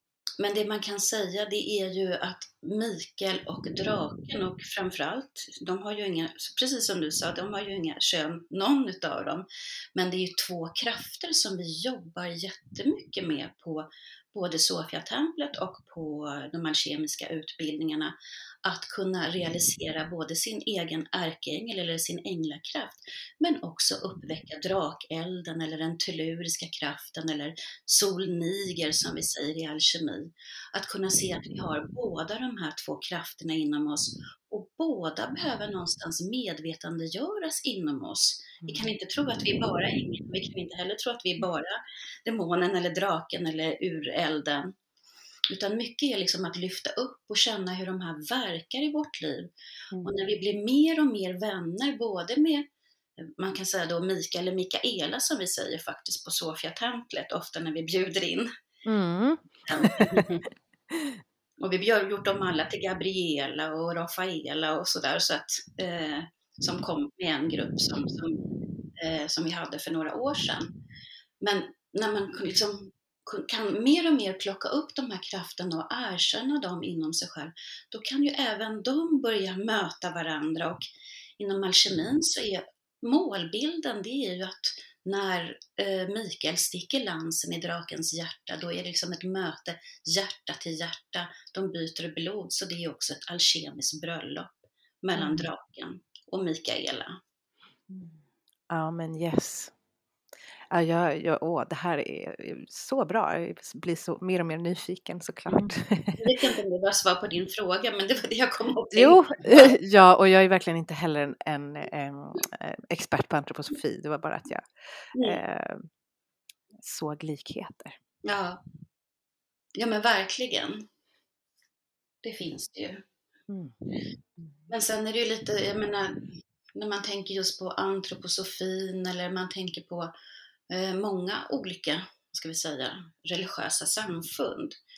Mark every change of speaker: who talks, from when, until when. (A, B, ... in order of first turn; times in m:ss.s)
0:00.4-0:44.7 A
0:45.5-0:49.5 A
0:50.0-0:52.6 A
0:53.2-0:58.5 A
0:58.8-1:00.2 B
0:59.7-1:00.3 A
1:00.9-1:01.2 B
1:01.6-1:08.4 A
1:09.0-1:10.7 A
1:11.4-1:37.2 A
1:38.7-1:39.7 B
1:40.7-1:46.3 B
1:46.2-1:49.7 A
1:48.9-1:55.9 B
1:56.8-1:58.0 B
1:58.2-1:58.6 A
1:59.8-2:00.8 A
2:02.2-2:03.0 A
2:03.5-2:03.8 B
2:04.7-2:10.1 A
2:10.7-2:14.8 A